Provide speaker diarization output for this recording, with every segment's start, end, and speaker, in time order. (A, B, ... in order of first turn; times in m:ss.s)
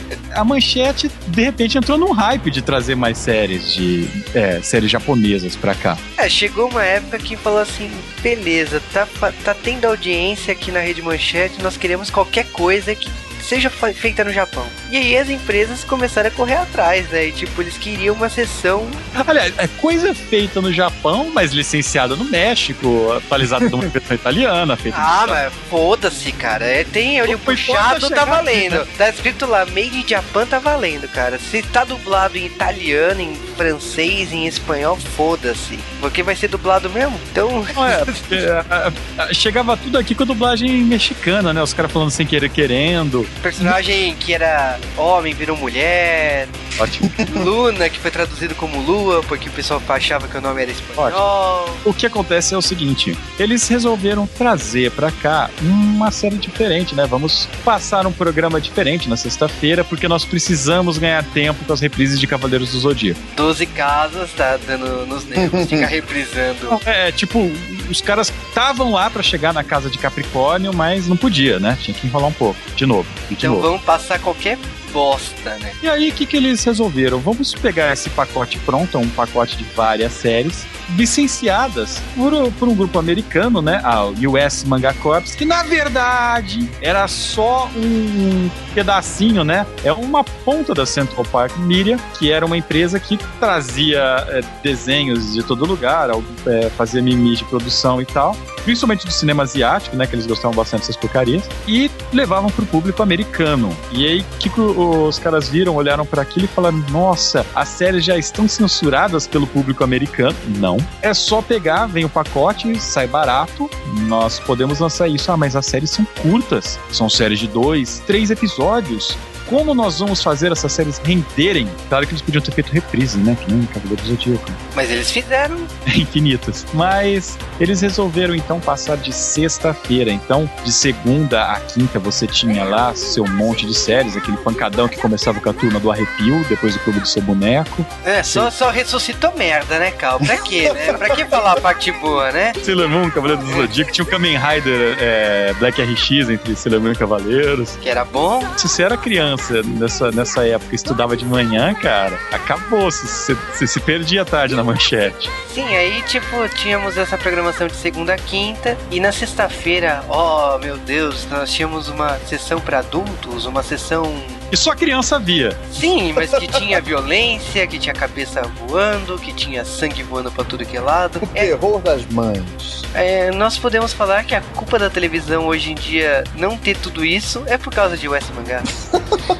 0:00.3-0:06.0 A
0:06.2-0:19.0 B
0:19.2-0:25.4 A
0:24.9-0:38.3 B
0:27.2-0:28.8 A
0:37.7-0:43.7 A
0:43.4-0:51.8 B
0:46.8-0:47.2 A
0:51.8-1:03.2 A
1:03.3-1:06.8 B
1:05.4-1:05.9 C
1:06.7-1:13.7 A
1:13.4-1:15.8 B
1:15.8-2:04.6 A
2:04.7-2:05.7 B
2:05.8-2:18.5 A
2:18.0-2:22.6 B
2:22.6-2:27.8 A
2:27.8-2:28.5 B
2:28.6-2:35.3 A
2:35.5-2:44.4 B
2:44.5-2:45.6 A
2:45.7-2:51.5 B
2:51.2-2:52.8 C
2:52.9-2:58.7 B
2:58.9-2:59.2 C